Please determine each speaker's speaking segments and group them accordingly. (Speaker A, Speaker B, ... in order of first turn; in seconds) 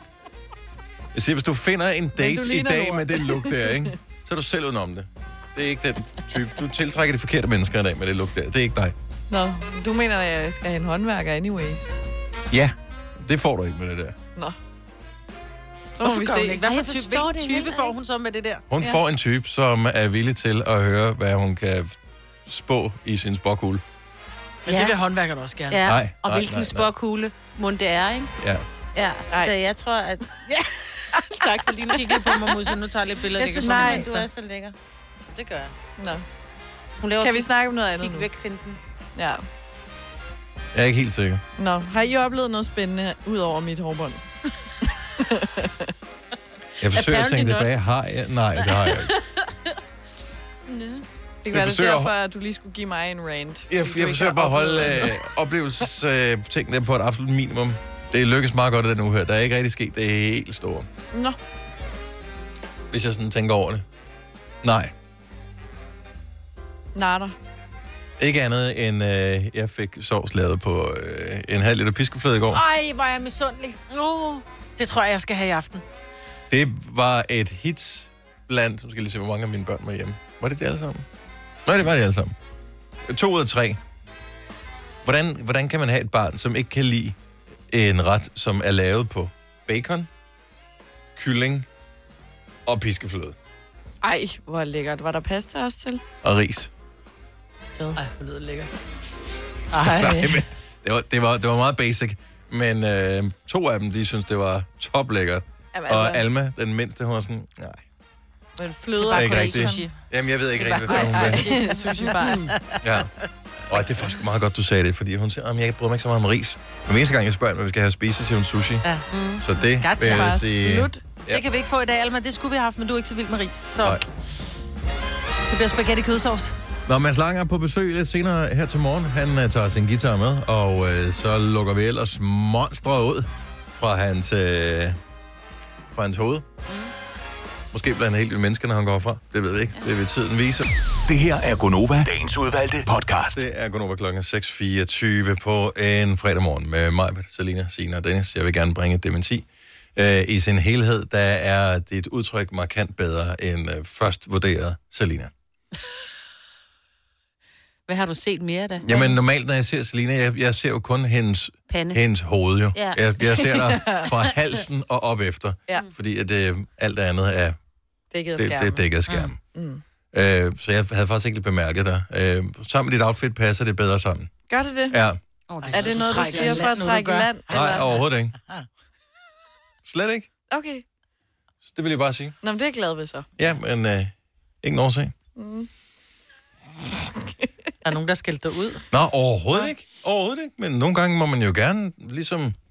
Speaker A: 1.1-8.9, 12.5-14.2, 18.7-23.8, 25.8-26.9, 28.4-28.6, 40.7-41.4, 46.8-49.1, 51.5-52.1, 53.7-60.9, 62.9-63.8, 64.6-64.9, 68.2-72.6, 76.5-81.0, 81.6-82.3, 83.1-83.8, 85.0-87.2, 87.7-90.1, 91.2-91.7, 92.7-93.3, 96.2-96.7, 99.8-107.8, 109.1-111.6, 112.8-113.1, 113.7-118.8, 119.4-121.4, 126.9-135.0, 135.9-136.4, 137.7-140.7, 143.3-155.3, 158.8-167.6, 168.4-169.4, 170.1-174.3, 174.9-175.2, 177.5-178.3, 179.8-180.3, 181.6-182.3, 183.4-185.1, 188.9-192.6
Speaker B: 2.2-3.9, 9.3-12.0, 16.0-16.6, 33.5-34.0, 36.0-36.2, 37.2-38.2, 39.1-39.4, 41.6-44.2, 45.2-45.9, 51.4-55.1, 66.9-67.3, 94.0-96.0, 105.7-106.2, 108.6-109.4, 110.6-112.5, 120.0-121.0, 158.9-159.2, 163.8-164.1, 168.1-168.8, 169.5-169.8, 174.5-175.0, 175.7-177.8, 180.5-180.8, 182.4-183.3, 185.3-185.7
Speaker C: 16.0-18.6, 24.6-25.8, 31.9-34.3, 35.3-35.7, 72.5-73.9, 74.8-75.8, 97.6-98.7, 99.7-100.4, 108.9-109.9, 110.9-112.8, 119.8-120.6, 121.3-124.0, 125.5-126.5, 175.6-178.7, 187.8-188.8
Speaker D: 16.6-17.9, 24.7-25.0, 25.7-28.3, 28.9-32.8, 33.3-34.7, 37.0-38.8, 46.8-47.7, 48.6-49.5, 73.9-74.4, 109.1-109.8, 111.2-112.5, 119.1-119.5, 157.9-158.8, 161.7-162.0, 162.7-163.7, 175.5-176.7
Speaker E: 141.1-143.4